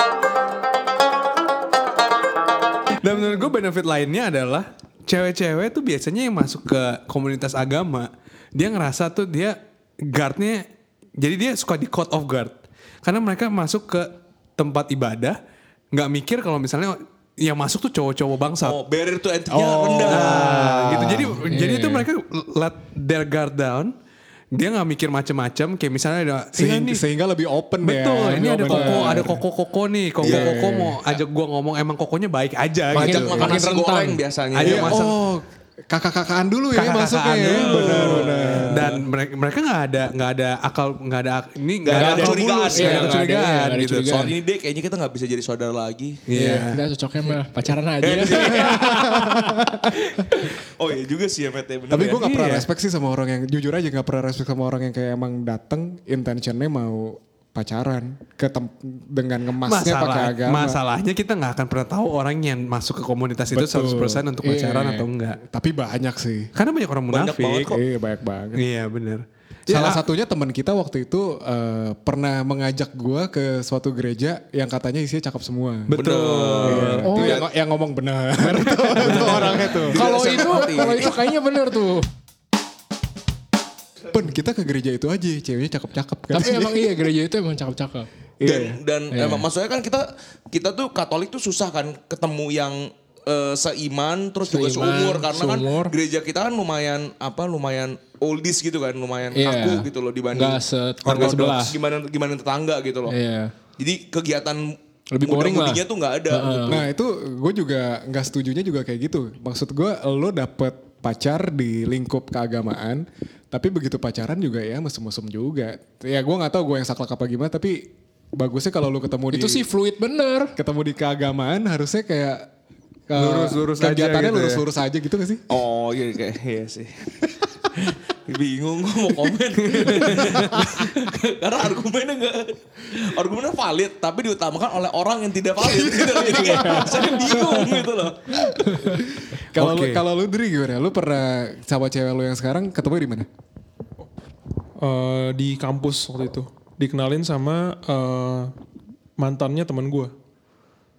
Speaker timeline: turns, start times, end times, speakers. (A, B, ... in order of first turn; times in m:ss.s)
0:02.9-0:10.6 A
0:11.2-0:15.4 A
0:15.9-0:18.8 A
0:18.6-0:20.6 B
0:19.5-0:21.4 C
0:20.1-0:23.9 A
0:21.5-0:22.1 D
0:24.5-0:27.0 A
0:26.5-0:29.4 C
0:27.8-0:33.6 A
0:28.7-0:29.3 D
0:30.2-0:31.1 C
0:30.2-0:30.6 B
0:32.9-0:35.0 B
0:33.0-0:34.2 D
0:34.5-0:35.2 A
0:34.6-0:39.0 C
0:36.7-0:44.2 A
0:37.5-0:38.9 B
0:41.8-0:43.3 B
0:41.9-0:44.3 D
0:44.0-0:46.2 B
0:46.3-0:46.8 A
0:46.4-0:49.1 D
0:48.0-0:49.1 B
0:48.4-0:50.1 C
0:50.6-0:52.3 B
0:51.9-1:00.8 C
0:52.2-0:52.7 A
0:59.6-1:05.4 A
1:03.5-1:06.5 C
1:06.6-1:07.8 A
1:07.1-1:07.8 B
1:07.7-1:08.6 C
1:08.6-1:10.0 A
1:09.7-1:16.0 C
1:15.9-1:17.1 A
1:15.9-1:17.4 B
1:16.6-1:20.1 C
1:17.0-1:17.4 D
1:19.0-1:19.6 A
1:19.2-1:21.2 B
1:19.9-1:22.1 D
1:24.1-1:27.0 C
1:26.3-1:28.1 D
1:28.4-1:28.8 C
1:28.4-1:43.2 B
1:29.1-1:29.5 D
1:34.5-1:35.9 D
1:39.4-1:41.8 D
1:43.1-1:43.5 D
1:43.8-1:46.8 B
1:45.1-1:46.8 D
1:46.7-1:59.7 C
1:59.3-2:00.6 D
2:00.6-2:02.5 C
2:03.1-2:05.4 C
2:03.2-2:04.6 A
2:05.5-2:07.1 B
2:07.9-2:18.7 B
2:09.7-2:10.6 A
2:15.6-2:17.1 C
2:16.3-2:17.7 D
2:18.6-2:19.0 D
2:18.7-2:23.3 C
2:19.5-2:20.0 A
2:24.8-2:28.5 E
2:29.2-2:30.1 E